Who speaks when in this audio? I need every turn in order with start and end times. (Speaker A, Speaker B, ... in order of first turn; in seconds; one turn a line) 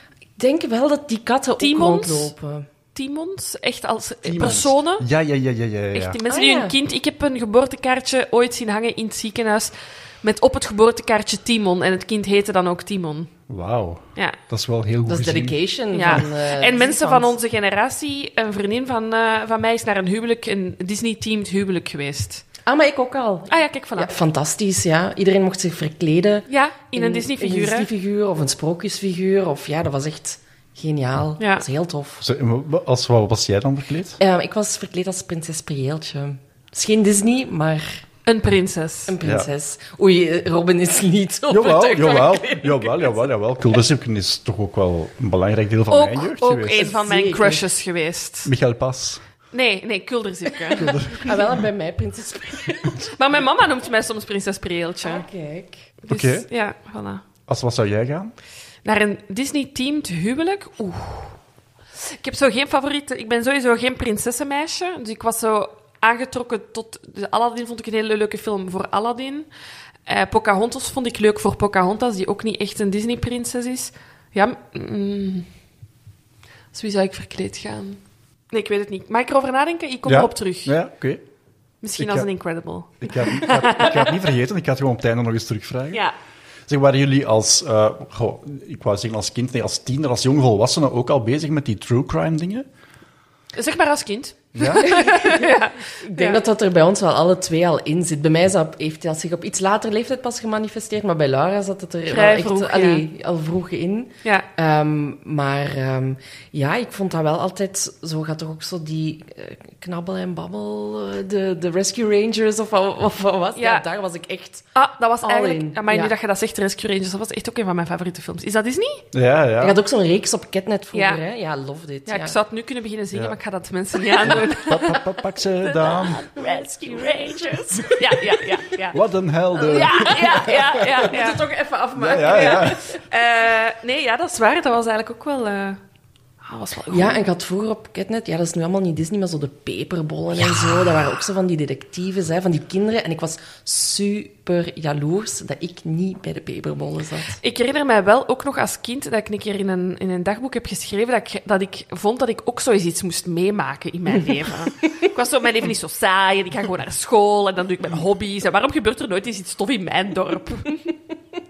Speaker A: 0.4-2.7
Speaker B: 1.6-2.3
Speaker B: 3.0-5.0
Speaker C: 4.2-6.2
Speaker B: 5.9-13.3
Speaker A: 6.3-6.8
Speaker C: 13.5-15.6
Speaker A: 15.1-17.4
Speaker B: 15.9-22.4
Speaker A: 22.7-32.2
Speaker B: 23.5-24.1
Speaker B: 26.5-27.9
Speaker B: 31.4-31.7
Speaker C: 32.2-34.2
Speaker A: 34.2-38.0
Speaker B: 38.3-39.1
Speaker A: 39.1-43.2
Speaker C: 39.2-39.5
Speaker C: 41.5-46.9
Speaker B: 45.9-48.5
Speaker A: 46.7-47.6
Speaker C: 48.5-49.2
Speaker B: 49.5-51.0
Speaker C: 50.8-51.6
Speaker A: 50.8-53.2
Speaker B: 53.1-55.2
Speaker A: 55.0-55.9
Speaker B: 56.0-57.2
Speaker C: 56.1-56.5
Speaker C: 57.5-58.3
Speaker B: 58.8-61.4
Speaker B: 62.0-69.5
Speaker B: 70.1-75.5
Speaker B: 76.7-78.0
Speaker B: 78.5-80.8
Speaker C: 80.1-81.2
Speaker B: 81.8-84.2
Speaker C: 82.0-82.3
Speaker C: 83.0-86.0
Speaker C: 86.7-92.7
Speaker B: 93.5-96.4
Speaker C: 94.5-94.9
Speaker A: 95.0-116.1
Speaker B: 102.1-103.0
Speaker B: 113.5-113.8
Speaker B: 114.8-119.0
Speaker C: 119.1-119.8
Speaker A: 119.6-122.4
Speaker B: 120.9-121.2
Speaker B: 122.1-125.0
Speaker C: 124.3-126.3
Speaker B: 125.6-129.0
Speaker A: 126.8-128.1
Speaker C: 128.9-130.3
Speaker B: 129.6-131.4
Speaker A: 129.7-132.8
Speaker C: 131.9-132.8
Speaker B: 132.2-135.8
Speaker B: 136.4-137.2
Speaker A: 136.9-147.4
Speaker B: 147.4-160.8